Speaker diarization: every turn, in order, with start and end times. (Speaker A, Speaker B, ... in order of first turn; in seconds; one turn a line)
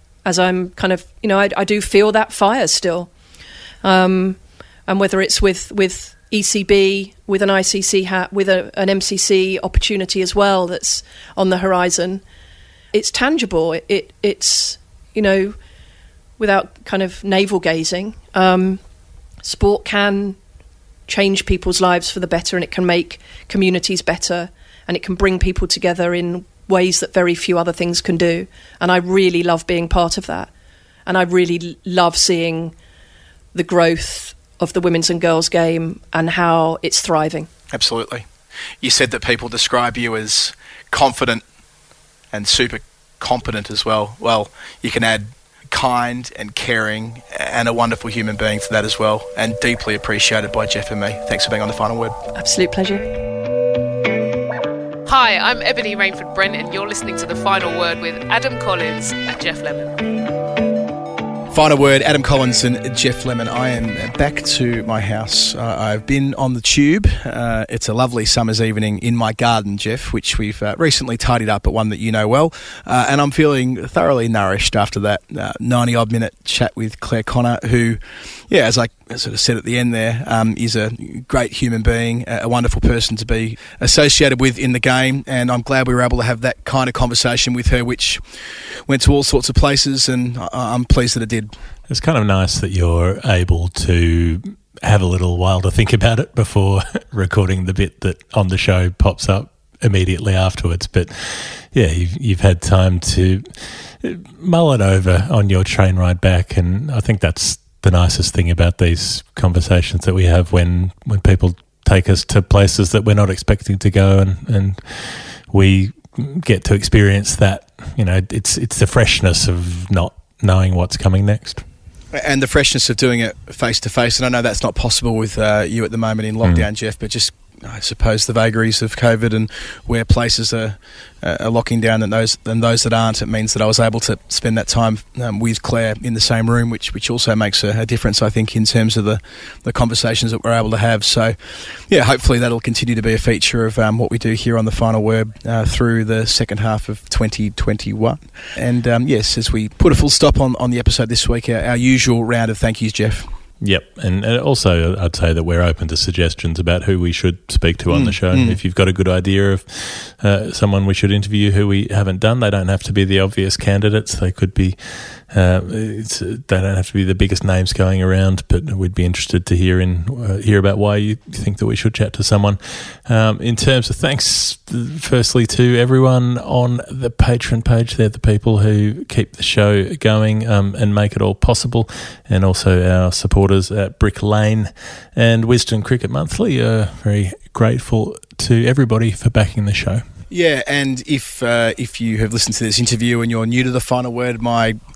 Speaker A: 0.2-3.1
Speaker A: 3.8-12.2
Speaker A: 12.9-15.6
Speaker A: 16.4-18.8
Speaker A: 19.4-20.4
Speaker A: 21.1-30.5
Speaker A: 31.1-32.7
Speaker A: 33.5-37.5
Speaker B: 37.7-38.3
Speaker B: 38.8-41.4
Speaker B: 42.3-52.2
Speaker A: 52.4-53.1
Speaker C: 55.1-60.0
Speaker B: 61.5-88.2
Speaker B: 88.9-91.5
Speaker D: 91.9-121.7
Speaker B: 122.1-141.4
Speaker B: 141.9-153.3
Speaker D: 153.6-190.0
Speaker B: 157.9-158.6
Speaker B: 190.3-194.8